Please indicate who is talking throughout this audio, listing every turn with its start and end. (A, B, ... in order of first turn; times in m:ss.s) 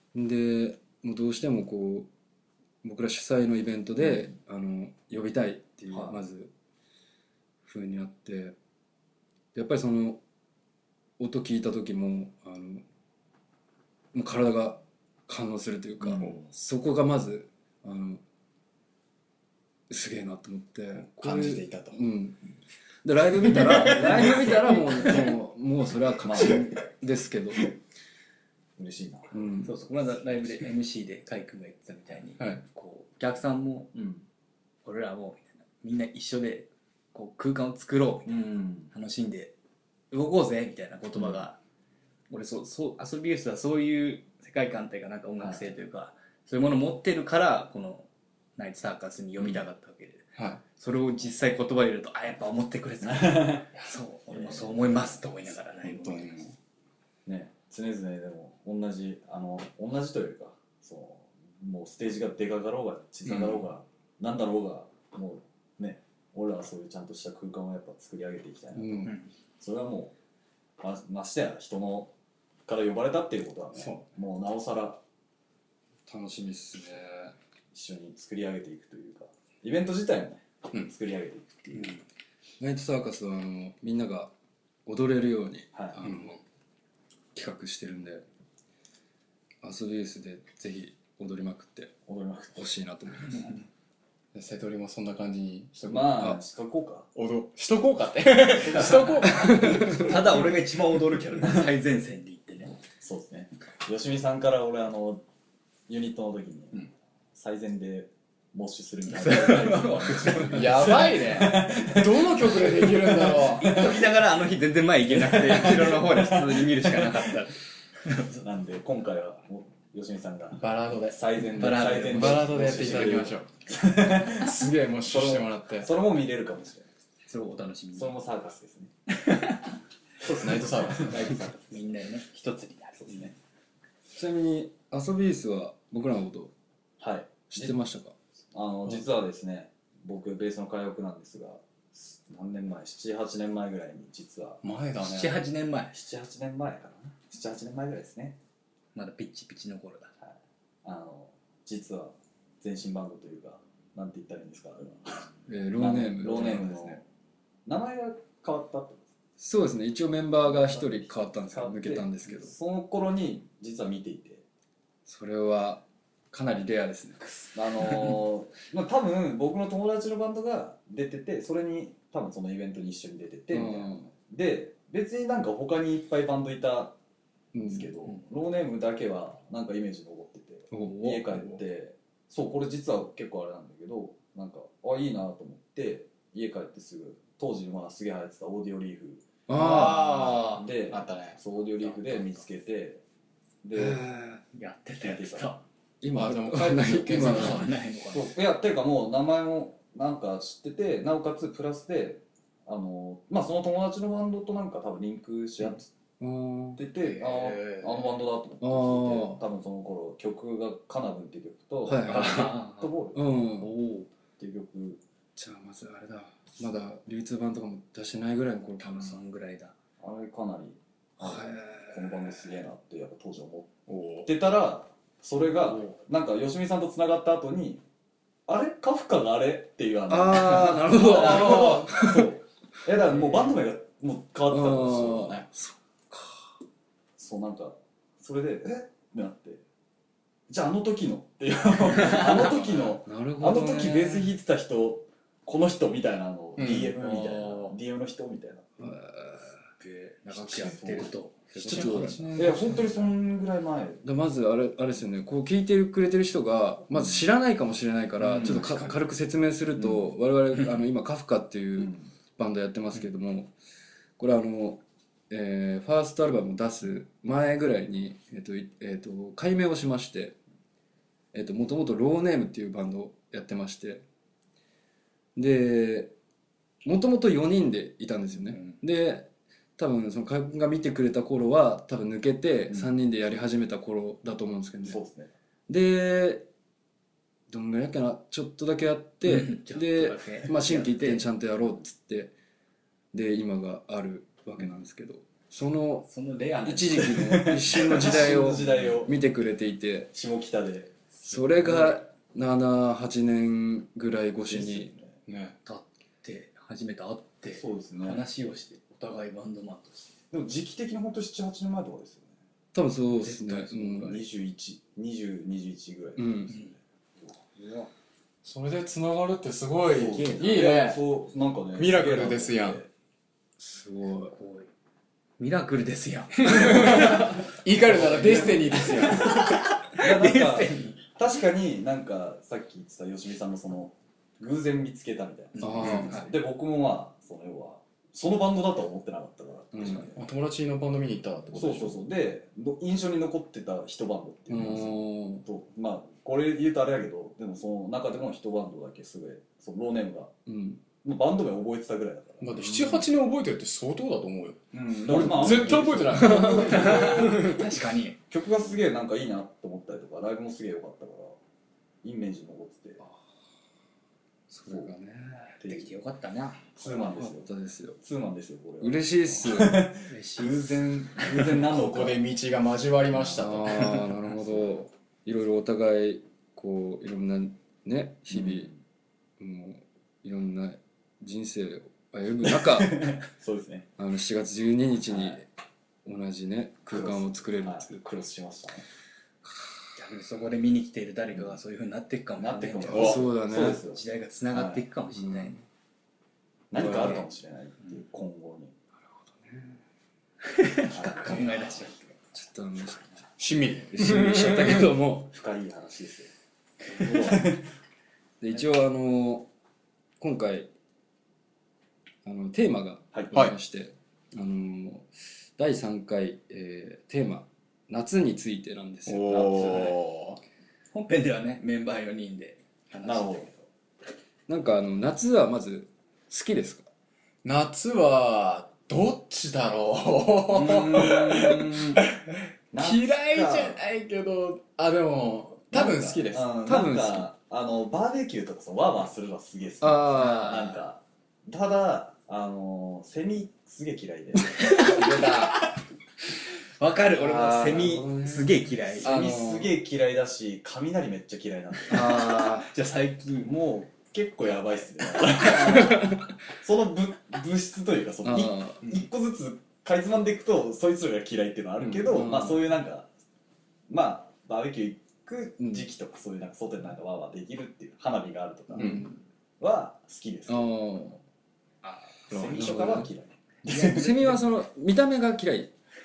0:00.1-0:02.1 A
0:02.8-0:06.5 A
0:04.0-0:04.3 B
0:05.9-0:06.2 B
0:07.6-0:08.5 A
0:09.5-0:10.2 A
0:11.2-0:12.8 A
0:14.1-0:18.2 A
0:16.2-0:16.4 C
0:19.9-0:22.4 A
0:21.2-0:22.0 C
0:23.0-0:27.6 A
0:26.2-0:26.6 B
0:28.8-0:29.5 B
0:29.3-0:29.7 A
0:29.6-0:34.0 D
0:33.9-0:34.2 B
0:34.8-0:39.5 D
0:38.2-0:38.9 B
0:40.1-0:41.6 D
0:42.3-0:56.4 D
0:50.4-0:50.6 C
0:53.0-0:53.7 B
0:54.3-0:55.0 B
0:55.8-0:56.6 C
0:57.2-1:10.1 B
1:03.2-1:03.6 C
1:10.8-1:12.1 B
1:12.7-1:15.0 B
1:13.7-1:14.1 C
1:16.1-1:17.3 A
1:17.7-1:22.0 B
1:22.6-1:24.3 A
1:24.8-1:26.4 A
1:25.7-1:26.0 B
1:27.3-1:28.2 A
1:29.6-1:31.9 A
1:32.1-1:32.7 B
1:32.6-1:33.5 A
1:33.3-1:33.6 B
1:34.3-1:36.3 C
1:35.8-1:37.1 B
1:37.1-1:40.0 C
1:38.8-1:40.0 B
1:39.4-1:40.0 A
1:39.7-1:42.8 D
1:43.0-1:45.2 B
1:45.9-1:54.1 B
1:49.1-1:51.1 D
1:50.4-1:53.9 C
1:53.3-1:57.6 D
1:55.1-1:57.3 B
1:58.1-2:06.9 B
2:00.5-2:03.6 C
2:01.5-2:03.2 D
2:04.3-2:05.9 C
2:07.3-2:08.2 D
2:07.9-2:08.9 B
2:09.2-2:09.7 D
2:10.2-2:11.7 B
2:10.3-2:11.3 C
2:11.0-2:13.3 D
2:12.3-2:13.3 B
2:14.1-2:16.5 A
2:17.0-2:17.8 B
2:17.5-2:18.1 A
2:18.5-2:24.6 B
2:24.6-2:25.4 C
2:25.0-2:25.9 D
2:25.9-2:28.4 B
2:28.9-2:30.1 D
2:30.2-2:37.0 B
2:35.5-2:37.0 A
2:37.6-2:39.1 B
2:39.4-2:42.5 A
2:40.4-2:44.4 B
2:45.0-2:47.2 A
2:47.2-2:57.0 B
2:53.5-2:54.1 A
2:57.5-2:57.9 A
2:57.6-3:09.2 B
3:00.7-3:01.4 A
3:09.5-3:10.5 A
3:09.6-3:12.3 C
3:09.9-3:10.6 D
3:10.1-3:13.0 B
3:13.6-3:14.0 B
3:13.7-3:14.4 A
3:14.5-3:15.6 D
3:15.0-3:15.6 B
3:16.0-3:17.6 A
3:16.1-3:17.7 C
3:17.1-3:18.3 D
3:18.1-3:25.9 B
3:26.2-3:26.8 A
3:26.8-3:33.3 B
3:27.0-3:28.1 C
3:28.6-3:29.4 A
3:31.8-3:32.6 A
3:32.0-3:32.9 D
3:33.1-3:33.7 A
3:33.6-3:34.1 D
3:34.4-3:35.0 B
3:35.4-3:39.2 A
3:38.8-3:39.7 D
3:40.0-3:43.7 B
3:41.2-3:42.3 A
3:43.9-3:44.3 C
3:44.2-3:47.8 B
3:45.6-3:45.9 C
3:48.5-3:55.4 B
3:50.1-3:52.3 A
3:51.1-3:52.0 C
3:54.5-3:56.5 A
3:57.2-3:59.6 B
4:00.5-4:08.7 B
4:03.0-4:04.3 A
4:06.6-4:07.1 C
4:07.0-4:07.8 D
4:08.8-4:09.6 A
4:09.8-4:12.5 D
4:10.3-4:11.1 B
4:11.6-4:12.4 A
4:11.6-4:14.0 B
4:11.7-4:13.1 C
4:14.0-4:23.5 A
4:16.9-4:17.2 B
4:18.3-4:18.8 B
4:21.8-4:22.0 B
4:24.2-4:30.4 A
4:31.3-4:34.0 A
4:35.4-4:36.1 A
4:36.8-4:45.0 A
4:44.8-4:45.3 B
4:45.7-4:46.5 A
4:47.5-4:52.3 A
4:49.2-4:51.3 D
4:53.1-4:56.1 A
4:56.0-4:57.4 D
4:56.6-5:00.1 A
4:57.1-4:59.2 B
5:00.1-5:00.9 B
5:01.2-5:04.9 A
5:04.4-5:05.2 B
5:05.3-5:05.6 C
5:05.6-5:10.1 D
5:07.5-5:08.2 B
5:10.3-5:12.3 B
5:12.7-5:14.2 A
5:13.2-5:14.0 D
5:13.9-5:16.8 B
5:16.2-5:16.5 A
5:17.6-5:17.9 D
5:18.4-5:21.1 C
5:19.9-5:22.9 B
5:20.2-5:20.7 D
5:21.7-5:22.8 C
5:23.6-5:24.3 A
5:24.3-5:24.7 D
5:25.4-5:27.4 D
5:26.4-5:29.4 C
5:26.7-5:27.3 B
5:27.8-5:40.2 B
5:28.2-5:31.0 D
5:35.6-5:36.2 D
5:35.6-5:36.1 A
5:39.7-5:40.1 A
5:40.1-5:42.0 C
5:41.5-5:50.3 B
5:44.5-5:45.4 A
5:50.5-5:50.8 A
5:51.0-5:52.7 B
5:52.4-5:57.6 C
5:52.6-5:53.0 A
5:54.7-5:57.5 B
5:56.1-5:56.9 A
5:56.6-5:58.2 D
5:58.3-6:01.4 B
6:02.0-6:03.0 B
6:04.5-6:05.5 A
6:05.6-6:05.9 B
6:05.6-6:06.7 D
6:06.7-6:12.2 B
6:06.8-6:08.0 A
6:08.8-6:09.9 A
6:10.1-6:10.7 D
6:11.4-6:14.0 C
6:13.4-6:18.7 A
6:18.3-6:18.8 B
6:19.4-6:23.1 A
6:22.5-6:23.9 B
6:24.0-6:25.4 A
6:25.1-6:25.4 B
6:26.0-6:28.1 A
6:26.9-6:28.8 B
6:30.0-6:35.6 D
6:32.4-6:34.0 B
6:32.9-6:33.8 A
6:34.5-6:34.8 B
6:35.1-6:35.6 A
6:36.7-6:38.7 B
6:36.8-6:37.2 D
6:39.2-6:39.8 A
6:40.4-6:42.0 D
6:40.9-6:41.9 B
6:42.3-6:43.2 A
6:43.4-6:44.8 C
6:43.9-6:45.3 A
6:45.2-6:46.3 B
6:47.0-6:47.3 D
6:47.0-6:47.6 B
6:48.4-6:49.5 A
6:50.2-6:50.7 A
6:52.2-6:59.8 A
6:59.0-7:00.4 C
7:00.9-7:03.5 D
7:03.0-7:03.6 B
7:04.5-7:06.9 A
7:07.4-7:16.6 C
7:10.5-7:12.0 B
7:12.7-7:13.8 B
7:15.7-7:24.9 B
7:16.6-7:17.3 A
7:19.8-7:20.8 A
7:24.6-7:25.7 D
7:26.8-7:29.3 D
7:27.2-7:29.7 A
7:29.0-7:32.4 B
7:31.9-7:32.7 A
7:32.4-7:33.5 D
7:33.4-7:43.1 B
7:35.9-7:36.2 A
7:38.2-7:38.9 A
7:41.8-7:42.6 A
7:43.9-7:49.0 B
7:45.6-7:45.9 A
7:48.8-7:49.1 C
7:48.8-7:49.1 A
7:49.6-7:51.1 B
7:50.5-7:51.2 A
7:51.8-7:52.3 D
7:52.3-7:54.2 B
7:52.3-7:53.0 C
7:52.5-7:53.1 A
7:53.7-7:55.7 A
7:53.7-7:54.0 D